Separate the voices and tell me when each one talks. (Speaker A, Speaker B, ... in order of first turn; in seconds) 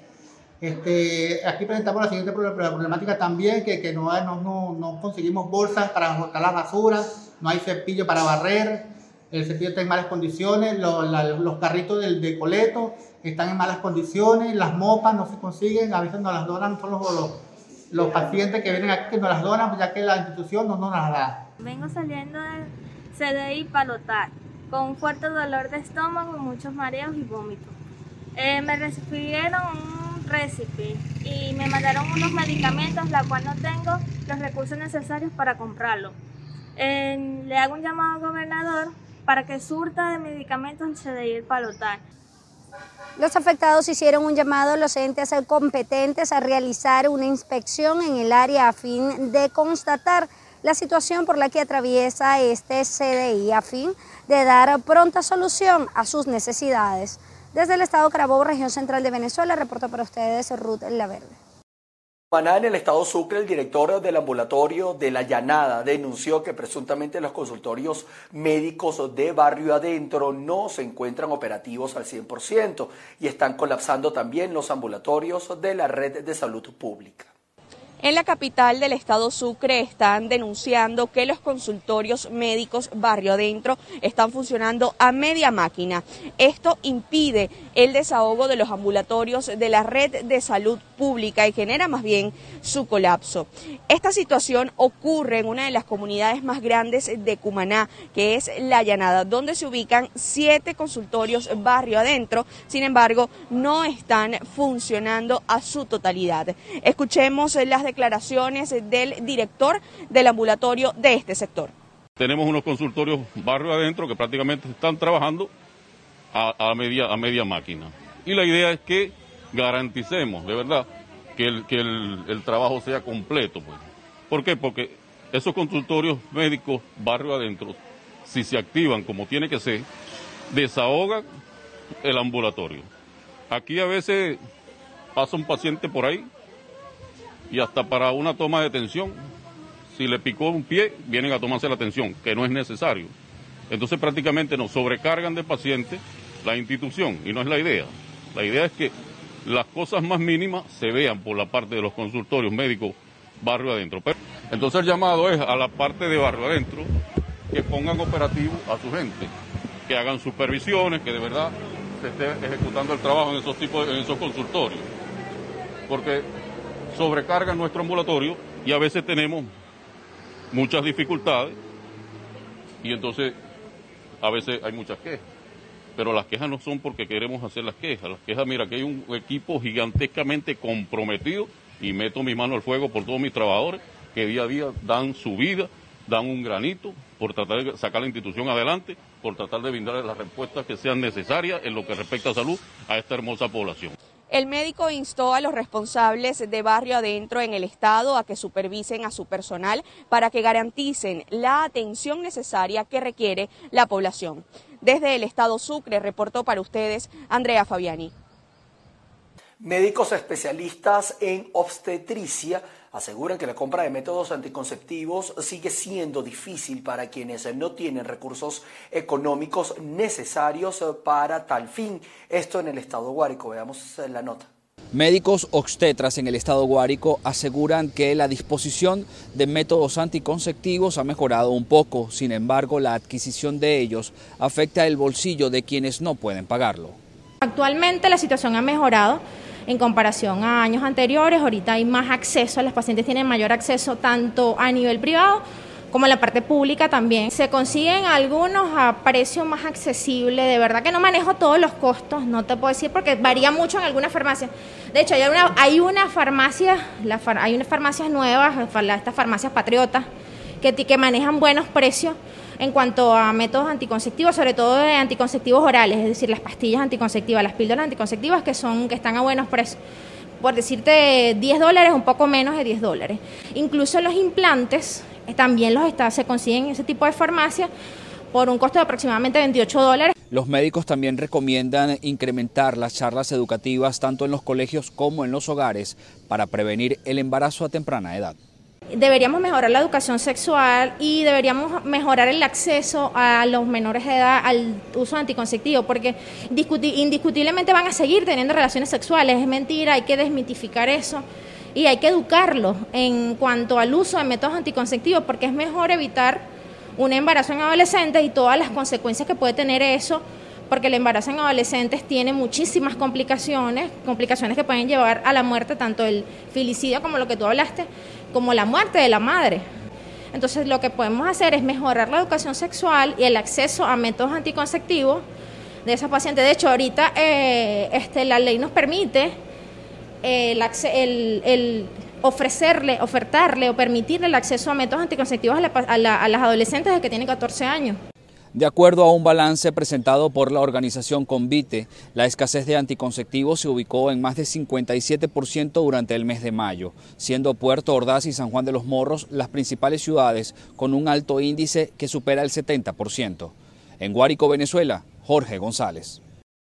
Speaker A: 0.6-21.5
Speaker B: 21.6-27.8, 28.4-36.2, 36.8-42.0
Speaker C: 43.2-61.4
Speaker D: 62.3-77.3, 209.6-224.5
Speaker E: 78.0-111.7, 194.3-208.1
Speaker F: 112.2-115.5, 116.3-129.9, 130.5-131.2, 132.0-132.9, 133.5-134.4, 135.2-136.3, 137.5-139.2, 139.9-143.1, 143.7-148.9, 149.4-156.9, 157.5-159.3, 159.9-164.9, 165.9-166.3, 166.9-169.5, 170.5-171.6, 172.8-173.3, 174.2-175.2, 176.0-193.9
Speaker G: 224.9-237.0, 280.3-288.4, 338.5-356.2
Speaker H: 237.4-260.1, 260.6-269.8, 270.4-277.7, 278.3-280.1, 288.9-306.5, 307.0-319.7, 320.3-325.3, 325.9-329.4, 330.2-338.0